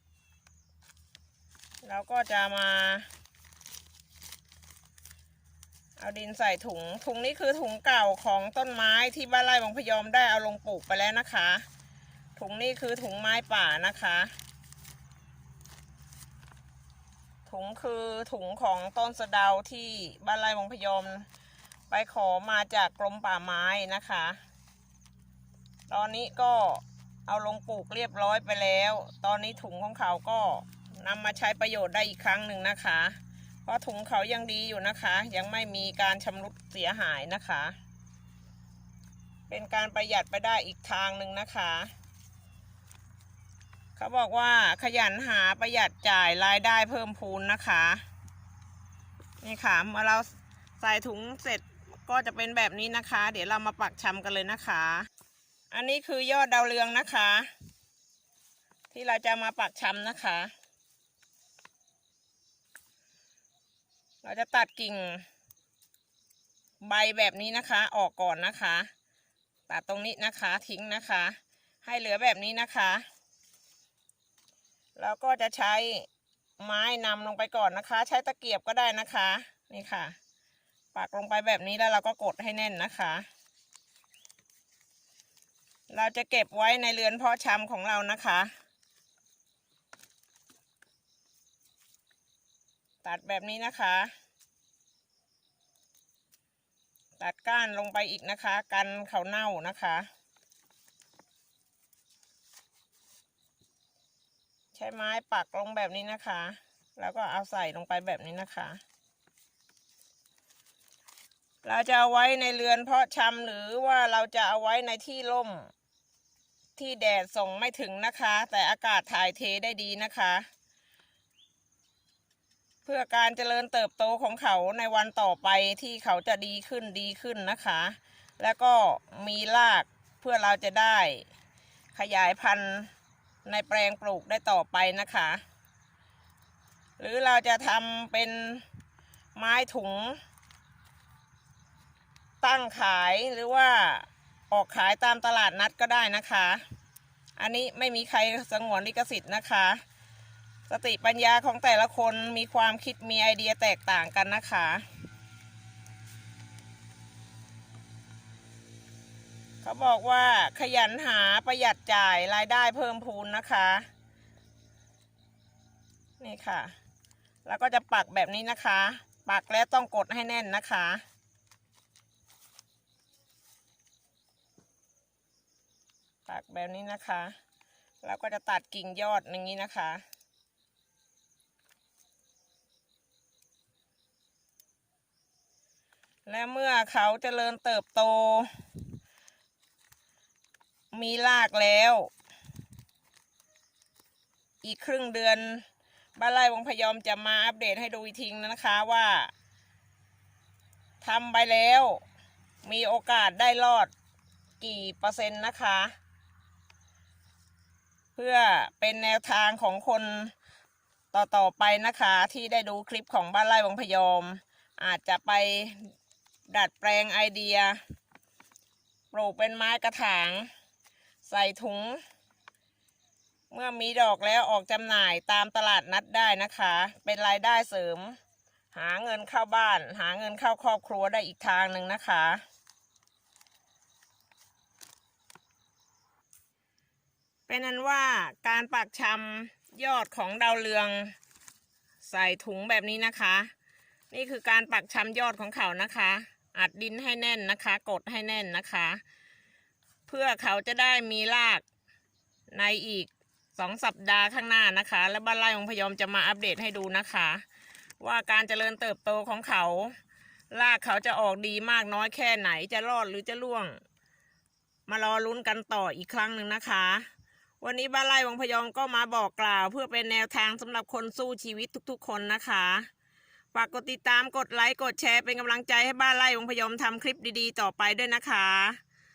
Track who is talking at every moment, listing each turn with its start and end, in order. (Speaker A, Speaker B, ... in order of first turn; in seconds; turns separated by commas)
Speaker A: 1.8-3.1, Speaker A: 6.0-11.7, Speaker A: 12.3-14.3, Speaker A: 17.4-21.3, Speaker A: 21.9-24.4, Speaker A: 25.9-37.8, Speaker A: 39.5-41.9, Speaker A: 44.0-48.0, Speaker A: 49.4-55.1, Speaker A: 55.7-57.5, Speaker A: 58.9-60.5, Speaker A: 64.2-65.2, Speaker A: 66.8-68.9, Speaker A: 69.7-73.0, Speaker A: 75.0-76.1, Speaker A: 76.6-80.2, Speaker A: 80.9-83.3, Speaker A: 85.9-88.5, Speaker A: 93.0-94.1, Speaker A: 97.2-100.1, Speaker A: 104.7-108.8, Speaker A: 111.6-115.7, Speaker A: 116.8-120.5, Speaker A: 122.8-131.2, Speaker A: 131.9-132.9, Speaker A: 133.4-135.4, Speaker A: 137.0-138.6, Speaker A: 139.3-140.2, Speaker A: 142.4-146.6, Speaker A: 147.4-149.8, Speaker A: 150.7-154.9, Speaker A: 159.6-163.9, Speaker A: 166.2-166.7, Speaker A: 167.4-171.0, Speaker A: 176.3-177.3, Speaker A: 178.0-180.0, Speaker A: 186.2-188.6, Speaker A: 190.9-192.1, Speaker A: 194.6-199.3, Speaker A: 201.0-202.0, Speaker A: 202.6-203.9, Speaker A: 204.6-205.9, Speaker A: 208.1-210.3, Speaker A: 211.1-215.9, Speaker A: 216.5-217.8, Speaker A: 219.1-220.5, Speaker A: 221.2-222.0, Speaker A: 223.5-228.2, Speaker A: 228.7-232.4, Speaker A: 237.5-241.1, Speaker A: 242.0-243.5, Speaker A: 244.1-249.0, Speaker A: 250.1-251.6, Speaker A: 252.5-257.4, Speaker A: 258.0-260.0, Speaker A: 260.5-263.8, Speaker A: 264.9-267.1, Speaker A: 267.6-272.9, Speaker A: 273.5-278.8